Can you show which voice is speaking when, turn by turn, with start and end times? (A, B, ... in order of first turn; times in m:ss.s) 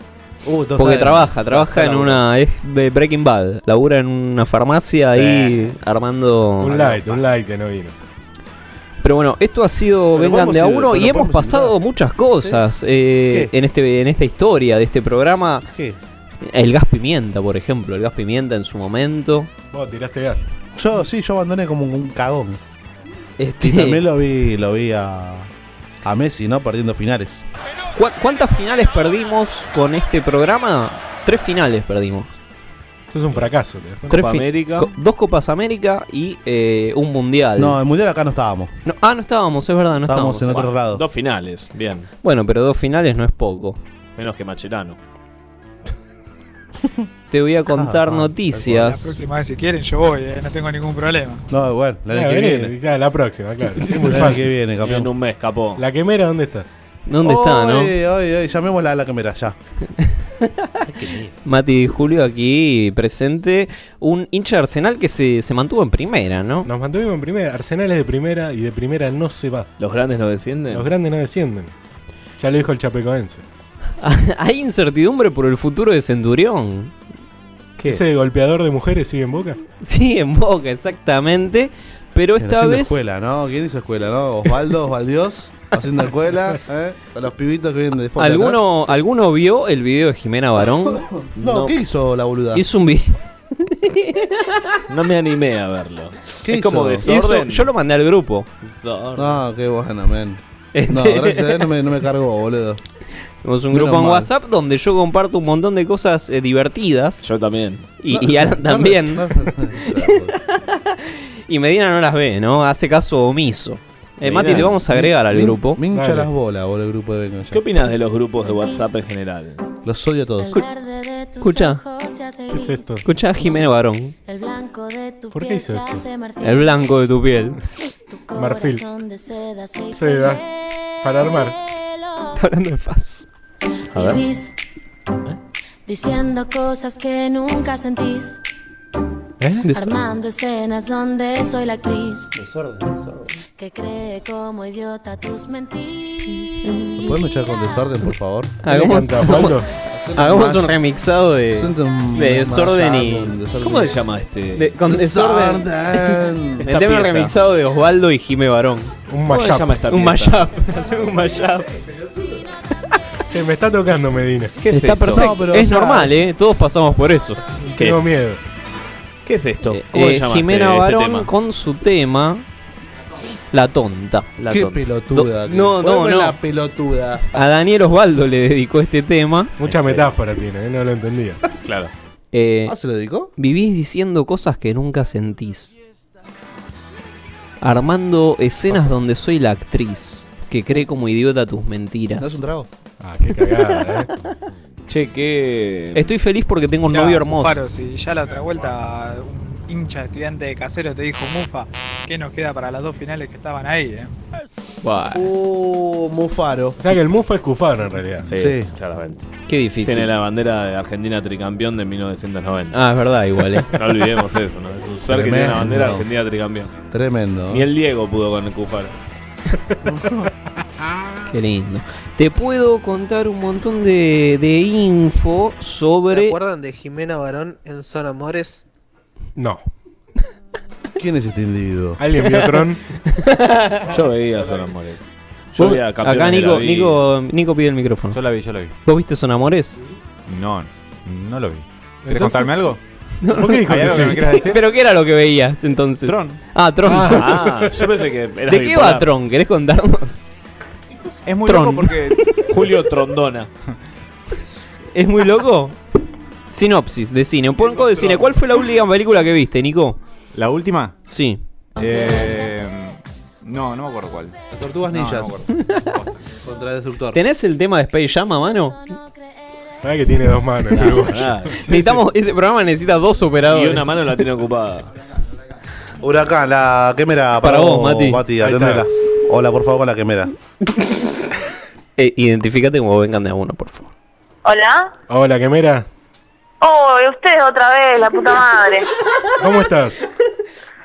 0:00.4-0:02.2 A
0:00.8-0:07.0 B
0:05.1-0:05.7 C
0:06.6-0:07.9 D
0:09.0-0:15.7 B
0:10.1-0:11.8 A
0:12.4-0:12.6 A
0:13.3-0:13.5 A
0:15.7-0:16.0 A
0:16.4-0:19.5 B
0:19.7-0:20.4 D
0:20.8-0:22.6 A
0:23.4-0:24.0 B
0:23.6-0:25.5 A
0:26.0-0:27.4 A
0:27.9-0:32.4 B
0:33.1-0:34.2 D
0:34.1-0:34.9 C
0:34.1-0:37.8 B
0:37.6-0:38.7 A
0:38.8-0:40.7 B
0:40.1-0:41.0 A
0:40.8-0:42.1 C
0:42.2-0:43.8 B
0:44.2-0:45.0 C
0:47.3-0:49.2 B
0:47.7-0:48.8 A
0:48.6-0:51.4 E
0:51.5-0:52.7 A
0:52.1-0:54.4 D
0:54.0-0:55.1 A
0:54.8-0:55.8 C
0:55.8-0:56.7 D
0:57.1-0:57.9 B
0:57.2-0:59.6 A
1:00.4-1:00.7 B
1:00.9-1:01.3 C
1:01.4-1:06.7 B
1:06.6-1:09.7 D
1:09.8-1:10.9 C
1:10.7-1:11.7 D
1:12.4-1:13.4 D
1:14.0-1:16.9 B
1:17.9-1:19.6 D
1:19.8-1:23.0 B
1:22.4-1:28.6 A
1:28.2-1:31.7 B
1:30.8-1:32.6 A
1:32.5-1:34.8 B
1:34.9-1:37.7 C
1:36.4-1:37.1 A
1:37.0-1:38.5 B
1:38.6-1:39.4 C
1:39.2-1:42.8 A
1:40.7-1:41.7 B
1:43.4-1:47.2 B
1:43.7-1:44.3 A
1:47.2-1:47.8 C
1:48.0-1:49.5 B
1:48.1-1:50.3 A
1:50.5-1:55.8 B
1:54.2-1:54.8 C
1:54.5-1:57.6 A
1:55.9-1:56.3 D
1:57.5-1:59.6 C
1:58.4-1:58.9 F
1:59.8-2:00.5 A
2:00.4-2:03.6 F
2:01.4-2:01.8 B
2:02.5-2:03.0 D
2:03.0-2:04.1 B
2:04.2-2:06.8 F
2:05.3-2:06.0 D
2:06.4-2:07.6 B
2:08.1-2:12.4 F
2:08.3-2:08.8 D
2:09.9-2:10.4 D
2:11.0-2:11.6 D
2:12.4-2:13.3 B
2:13.9-2:14.5 F
2:13.9-2:14.2 C
2:15.9-2:18.4 F
2:19.4-2:19.7 D
2:19.6-2:20.0 B
2:19.7-2:22.3 F
2:23.6-2:27.2 F
2:27.0-2:28.5 A
2:28.6-2:29.6 B
2:28.7-2:29.7 D
2:29.9-2:30.7 A
2:30.1-2:33.3 B
2:31.5-2:34.0 A
2:33.6-2:34.7 C
2:34.6-2:38.9 B
2:34.8-2:36.7 A
2:36.6-2:37.3 C
2:39.1-2:39.7 D
2:39.2-2:40.5 C
2:39.9-2:41.7 B
2:43.3-2:44.5 D
2:44.6-2:45.3 C
2:44.7-2:47.4 B
2:45.1-2:46.2 A
2:47.7-2:48.4 D
2:47.8-2:48.0 C
2:49.2-2:51.3 C
2:49.7-2:52.4 B
2:53.5-2:54.3 B
2:54.4-2:54.9 C
2:54.5-2:57.2 A
2:55.1-2:56.4 B
2:57.3-2:59.6 B
2:59.6-3:01.4 D
2:59.6-3:00.1 C
3:01.6-3:01.9 C
3:02.3-3:02.7 B
3:02.7-3:03.3 A
3:03.4-3:05.7 B
3:07.6-3:12.4 B
3:12.2-3:12.7 A
3:13.0-3:14.1 D
3:14.9-3:16.1 C
3:15.9-3:17.6 B
3:16.9-3:24.1 E
3:24.8-3:25.3 B
3:25.1-3:26.8 A
3:26.8-3:28.3 D
3:28.3-3:29.3 C
3:28.3-3:28.7 A
3:29.5-3:30.1 B
3:29.8-3:32.8 C
3:32.7-3:33.7 B
3:33.7-3:36.7 C
3:35.1-3:36.1 A
3:36.9-3:37.7 A
3:37.5-3:38.9 C
3:39.8-3:40.3 A
3:40.8-3:41.3 D
3:41.3-3:46.3 B
3:46.0-3:48.6 G
3:49.4-3:49.6 D
3:51.0-3:52.0 A
3:52.0-3:52.8 D
3:53.1-3:53.9 B
3:53.9-3:57.0 C
3:55.6-3:58.2 B
3:58.1-3:58.7 H
3:58.8-3:59.8 B
4:00.3-4:02.8 H
4:02.0-4:02.6 D
4:03.2-4:07.5 B
4:03.3-4:04.4 D
4:03.6-4:04.6 H
4:06.0-4:06.4 H
4:06.8-4:07.7 D
4:07.0-4:09.1 C
4:08.5-4:10.2 B
4:11.2-4:12.2 H
4:11.4-4:12.3 B
4:12.4-4:13.5 C
4:14.9-4:15.8 B
4:16.5-4:20.0 B
4:20.3-4:21.0 H
4:21.1-4:21.4 B
4:21.8-4:24.4 H
4:21.8-4:22.3 F
4:24.5-4:25.4 A
4:24.9-4:26.2 H
4:26.2-4:27.2 A
4:27.1-4:28.8 B
4:29.0-4:29.7 F
4:29.8-4:31.5 D
4:30.8-4:31.7 C
4:31.6-4:34.0 B
4:33.5-4:34.9 C
4:36.0-4:40.3 A
4:37.4-4:38.2 B
4:38.4-4:38.8 D
4:42.0-4:43.9 B
4:44.4-4:44.9 I
4:45.1-4:45.8 D
4:46.6-4:48.9 I
4:49.4-4:50.0 D